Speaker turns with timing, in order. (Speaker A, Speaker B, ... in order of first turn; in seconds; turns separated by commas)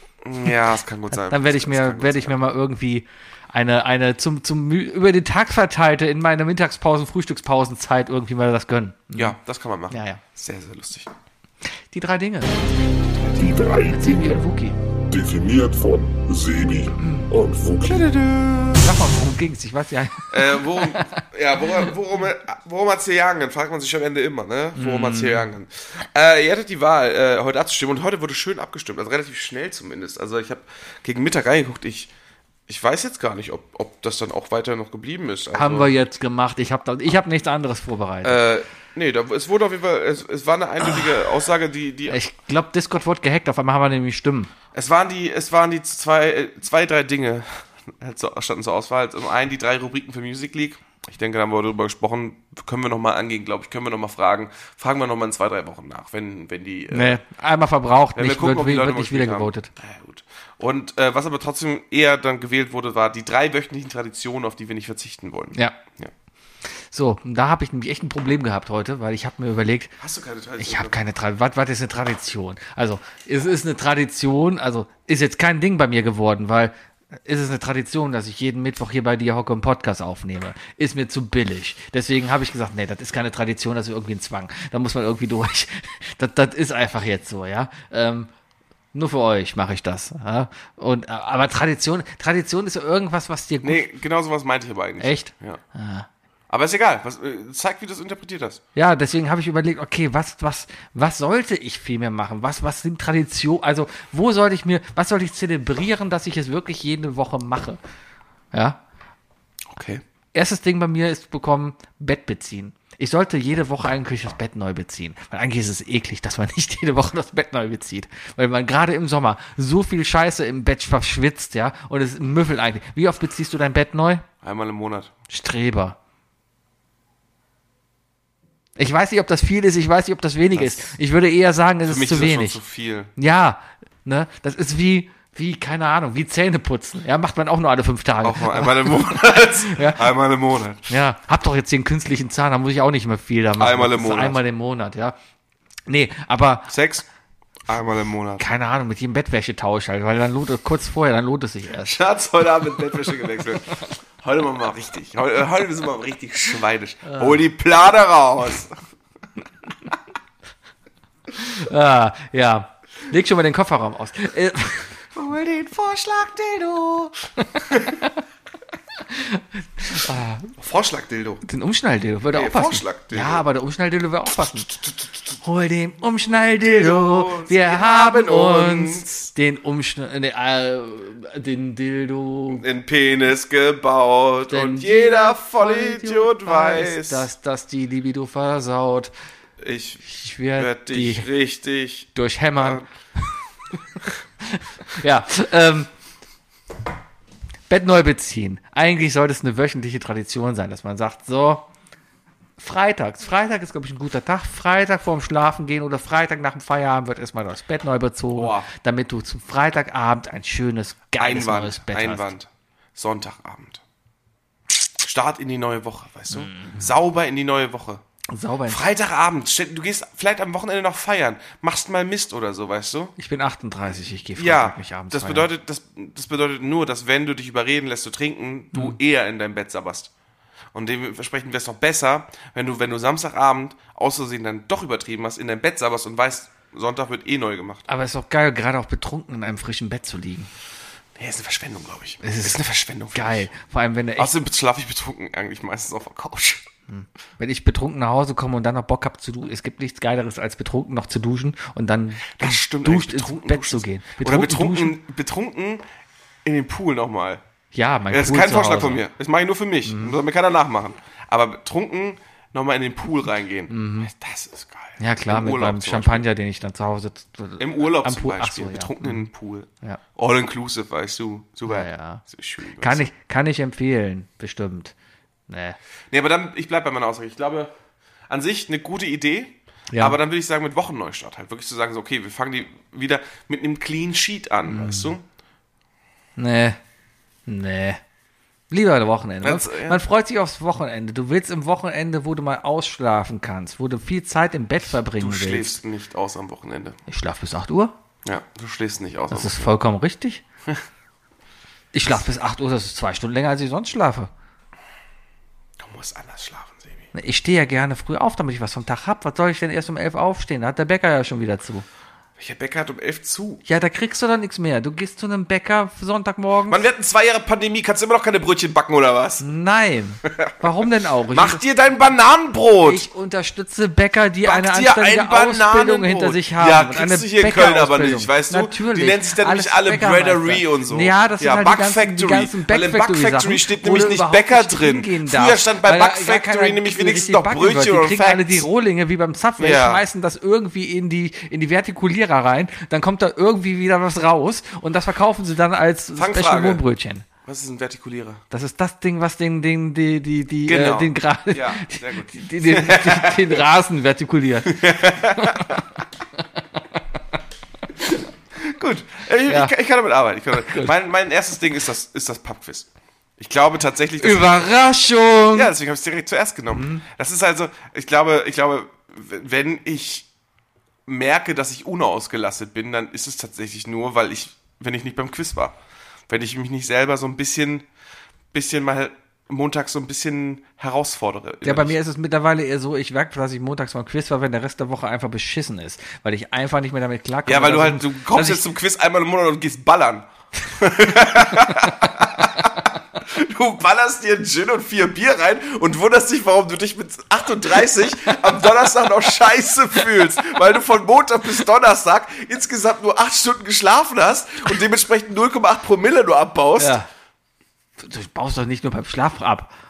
Speaker A: 0.2-2.4, Speaker B: 1.1-9.3, Speaker A: 9.1-11.1, Speaker B: 9.9-10.2, Speaker B: 11.9-12.8, Speaker C: 13.2-14.4, Speaker B: 13.9-14.8, Speaker C: 15.1-18.2, Speaker B: 17.0-17.3, Speaker A: 17.9-18.9, Speaker B: 18.8-21.2, Speaker A: 20.3-32.1, Speaker B: 24.7-25.5, Speaker A: 32.7-35.9, Speaker B: 35.5-38.4, Speaker A: 38.2-42.2, Speaker B: 42.1-44.5, Speaker A: 44.7-57.2, Speaker B: 56.9-59.7, Speaker A: 58.1-66.1, Speaker B: 66.9-69.9, Speaker A: 70.0-71.0, Speaker B: 70.6-76.7, Speaker B: 77.2-88.3, Speaker B: 88.9-93.8, Speaker A: 93.6-95.6, Speaker B: 95.0-96.1, Speaker A: 96.5-98.6, Speaker B: 98.7-107.8, Speaker B: 108.5-108.8, Speaker A: 109.7-110.0, Speaker B: 110.3-124.2, Speaker A: 124.4-125.1, Speaker B: 125.3-126.0, Speaker B: 128.8-132.6, Speaker A: 130.5-130.9, Speaker A: 131.8-133.1, Speaker B: 133.2-140.0, Speaker A: 138.2-140.9, Speaker B: 140.9-145.1, Speaker A: 143.6-144.4, Speaker B: 145.9-146.7, Speaker A: 146.7-147.1, Speaker A: 147.7-148.5, Speaker B: 148.4-152.0, Speaker A: 151.8-158.8, Speaker B: 157.1-157.4, Speaker B: 161.3-165.0, Speaker A: 165.1-168.0, Speaker B: 167.4-168.2, Speaker B: 169.1-170.5, Speaker A: 170.6-171.4, Speaker B: 171.4-174.7, Speaker A: 172.3-173.4, Speaker A: 174.7-175.3, Speaker B: 175.4-182.6, Speaker A: 176.6-179.3, Speaker A: 182.5-187.3, Speaker B: 184.5-189.1, Speaker A: 189.6-192.8, Speaker B: 190.0-191.3, Speaker B: 192.1-192.8, Speaker B: 194.0-195.9, Speaker B: 197.7-201.7, Speaker B: 202.6-212.3, Speaker A: 208.3-208.7, Speaker A: 211.2-213.8, Speaker A: 214.7-218.0, Speaker B: 216.3-216.8, Speaker B: 218.3-218.8, Speaker A: 218.7-223.1, Speaker B: 223.2-225.5, Speaker A: 224.4-230.1, Speaker A: 230.7-237.8, Speaker B: 237.9-240.5, Speaker A: 241.2-243.5, Speaker B: 242.2-242.6, Speaker B: 243.1-244.3, Speaker A: 244.2-246.7, Speaker B: 246.9-254.9, Speaker A: 252.3-255.8, Speaker A: 256.4-257.4, Speaker B: 257.7-259.0, Speaker A: 258.1-266.2, Speaker B: 259.9-260.1, Speaker B: 263.7-264.1, Speaker B: 265.0-269.3, Speaker A: 267.6-273.0, Speaker B: 271.7-272.2, Speaker B: 272.8-274.9, Speaker B: 275.5-275.8, Speaker A: 276.1-277.7, Speaker A: 278.3-285.2, Speaker B: 279.9-280.2, Speaker B: 284.7-285.1, Speaker B: 286.4-286.8, Speaker B: 287.5-288.0, Speaker B: 288.7-295.8, Speaker A: 289.4-290.0, Speaker A: 295.2-297.0, Speaker B: 297.1-297.9, Speaker A: 298.2-299.7, Speaker B: 299.3-300.4, Speaker B: 301.9-304.3, Speaker A: 305.8-307.1, Speaker B: 307.1-311.9, Speaker A: 312.4-313.6, Speaker B: 313.6-316.8, Speaker A: 316.7-319.4, Speaker B: 319.4-321.6, Speaker A: 320.2-320.5, Speaker A: 321.3-323.1, Speaker B: 322.8-347.2, Speaker A: 324.4-338.6, Speaker A: 339.6-340.0, Speaker A: 346.1-346.8, Speaker A: 347.4-348.4, Speaker B: 348.5-355.8, Speaker A: 350.7-353.6, Speaker A: 354.6-355.8, Speaker A: 358.6-364.6, Speaker B: 359.5-359.7, Speaker B: 360.5-360.9, Speaker B: 364.2-365.7, Speaker A: 365.5-370.3, Speaker B: 366.7-367.0, Speaker A: 371.1-375.8, Speaker A: 376.3-377.9, Speaker A: 378.5-381.9, Speaker B: 381.6-388.6, Speaker A: 387.5-407.0, Speaker B: 406.8-407.1, Speaker B: 408.0-409.7